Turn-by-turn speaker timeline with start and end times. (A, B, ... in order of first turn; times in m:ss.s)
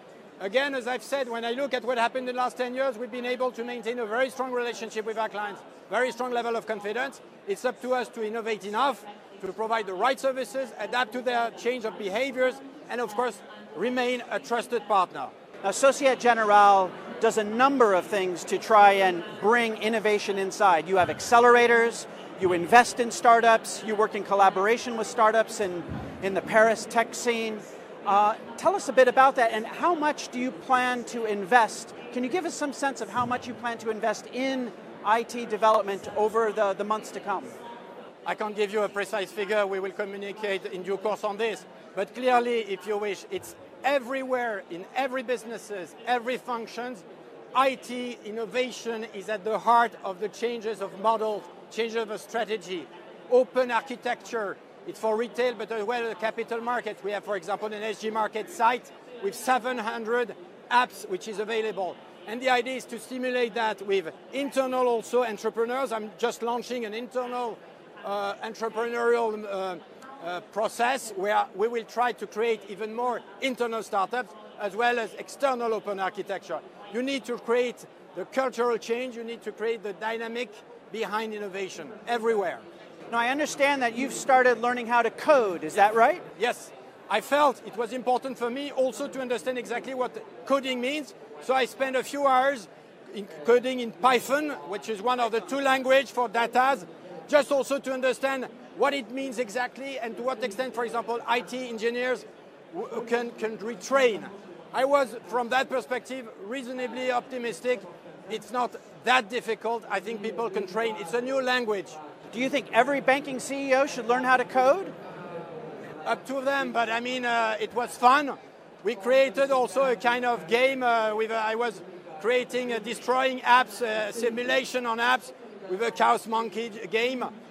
0:00.4-0:15.3 A
0:15.6-0:37.6 B
0:38.2-1:22.6 A
1:23.1-1:26.2 B
1:26.4-1:52.0 A
1:52.3-1:54.9 B
1:56.0-2:07.3 A